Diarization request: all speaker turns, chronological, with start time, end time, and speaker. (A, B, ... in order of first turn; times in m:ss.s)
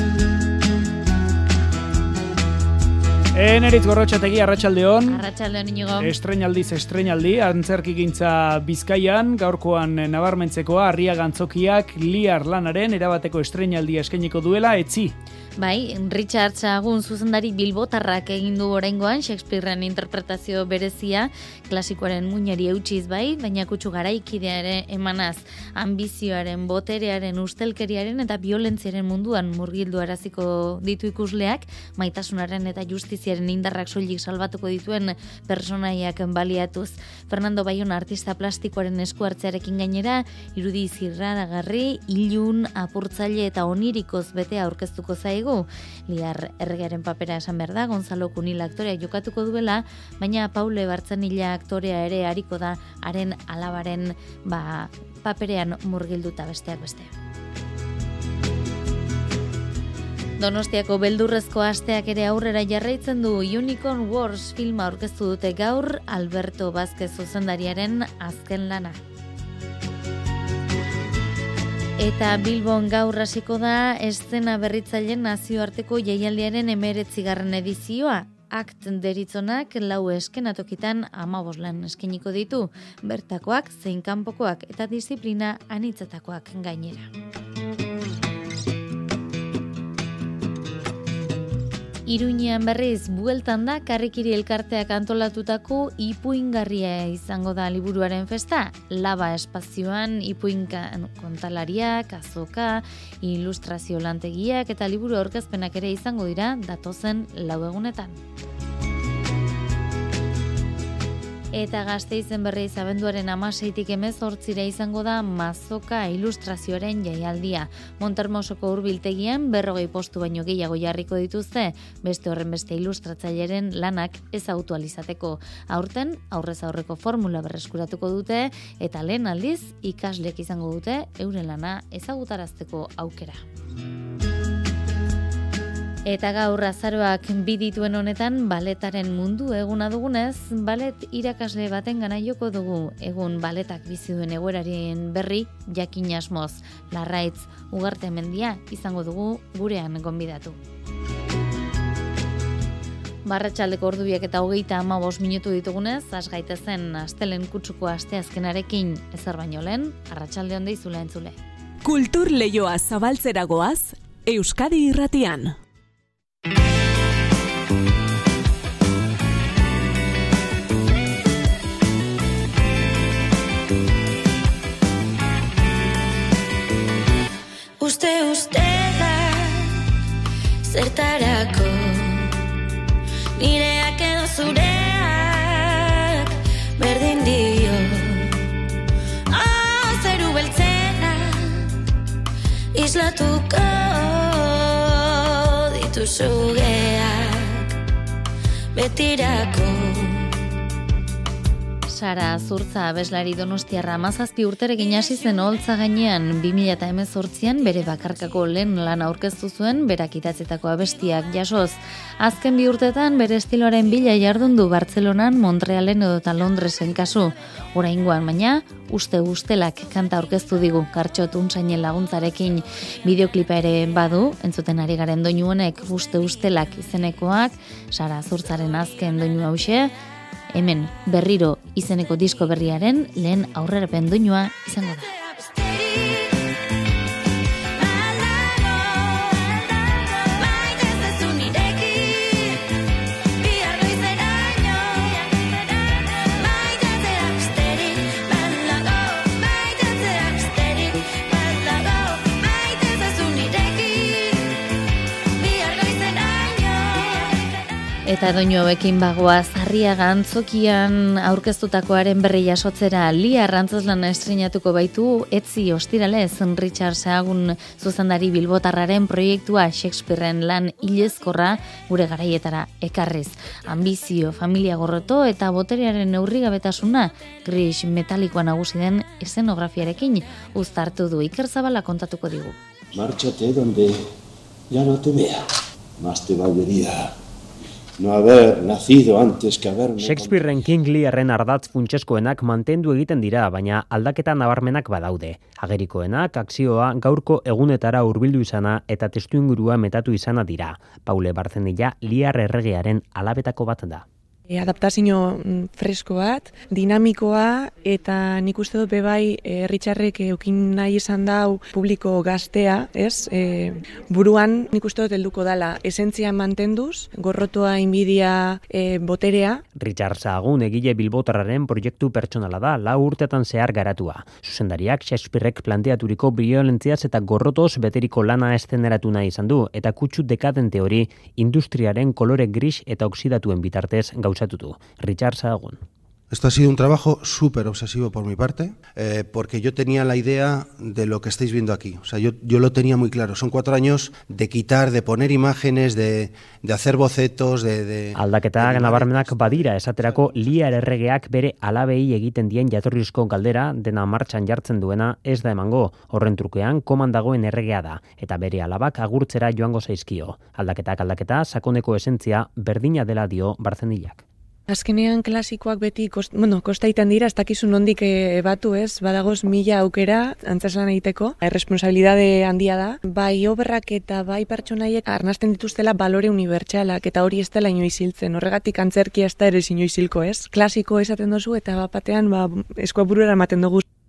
0:03.3-0:05.2 A
0:05.1-0:06.1 B
0:06.0-0:15.1 A
0:15.6-0:57.1 B
1:00.4-1:09.0 B
1:12.0-1:27.1 B
1:32.0-1:48.2 B
1:51.5-2:13.4 B
2:16.0-2:30.6 B
2:33.2-2:41.4 B
2:41.8-2:45.6 C
2:57.8-2:59.7 D
3:00.6-3:02.4 D
3:03.4-3:08.3 D
3:09.3-3:11.7 D
3:12.7-3:17.7 D
3:18.7-3:20.4 D
3:21.9-3:49.9 B
3:50.5-3:55.1 B
3:55.1-3:56.5 D
3:57.8-4:02.6 D
4:03.4-4:14.6 D
4:15.4-4:17.5 D
4:18.0-4:42.6 B
4:42.9-4:44.0 E
4:44.7-4:45.4 E
4:46.0-4:47.1 E
4:48.0-4:50.4 E
4:50.0-5:04.0 F
5:04.5-5:19.6 G
5:19.8-5:35.8 F
5:36.3-5:50.4 H
5:48.1-6:04.2 F
6:04.7-6:23.8 G